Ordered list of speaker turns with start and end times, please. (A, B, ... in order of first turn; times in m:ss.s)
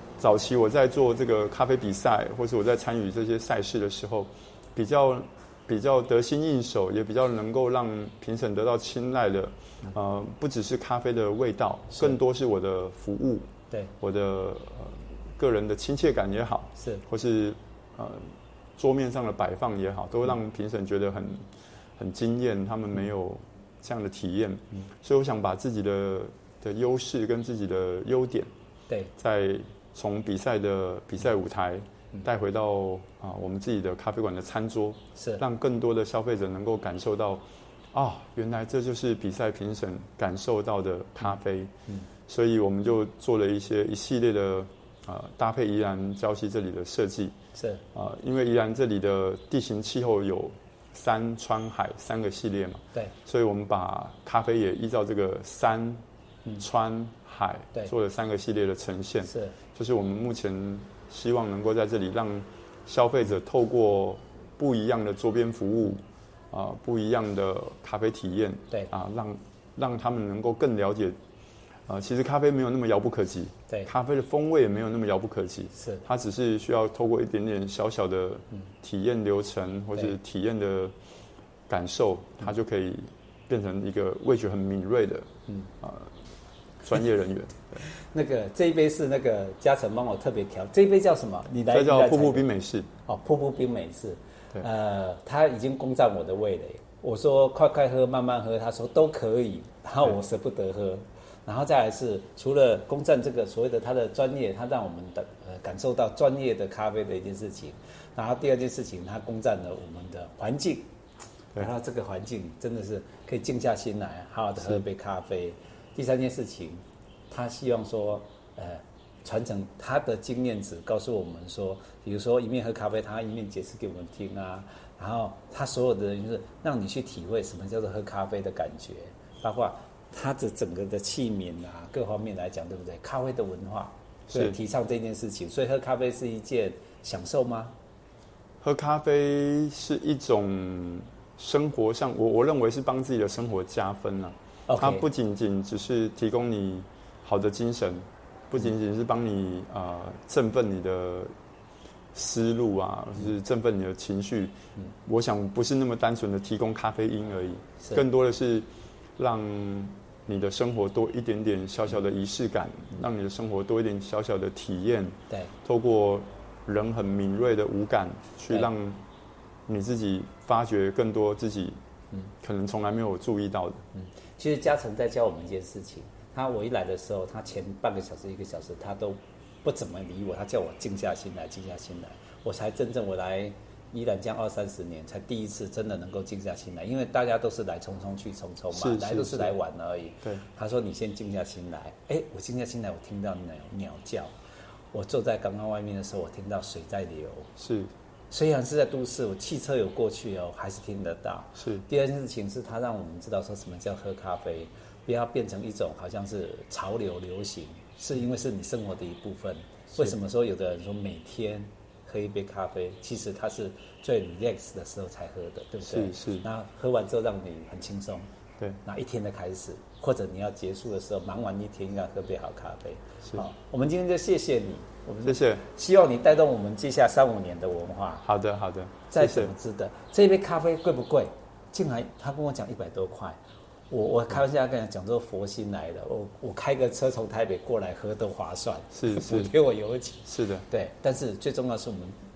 0:00.2-0:13.5 A
0:14.0-0:21.5 A
0:16.8-0:17.0 B
0:22.0-0:28.5 A
0:29.2-0:41.7 A
0:42.3-0:47.4 A
0:47.6-0:47.8 B
0:47.9-0:56.0 A
0:56.6-1:11.2 A
0:59.3-0:59.6 B
1:11.9-1:20.9 A
1:15.8-1:16.0 B
1:21.7-1:25.3 A
1:25.8-1:26.1 A
1:26.8-1:27.8 A
1:27.9-1:32.5 B
1:31.7-1:32.9 A
1:33.1-1:50.9 B
1:51.6-2:17.8 B
2:14.3-2:14.6 A
2:18.6-2:31.3 A
2:24.7-2:25.0 B
2:32.1-2:34.5 A
2:35.0-2:38.7 A
2:39.2-2:49.0 A
2:49.7-2:51.8 A
2:52.4-2:53.8 A
2:53.9-3:14.3 B
3:08.7-3:09.5 A
3:14.9-3:17.5 B
3:17.6-3:17.9 A
3:18.3-3:38.3 B
3:21.6-3:21.9 A
3:35.8-3:36.4 A
3:38.8-3:48.3 B
3:45.3-3:45.6 A
3:48.2-3:49.5 A
3:49.1-3:53.4 B
3:53.9-4:02.2 B
3:58.9-3:59.5 A
4:00.3-4:00.6 A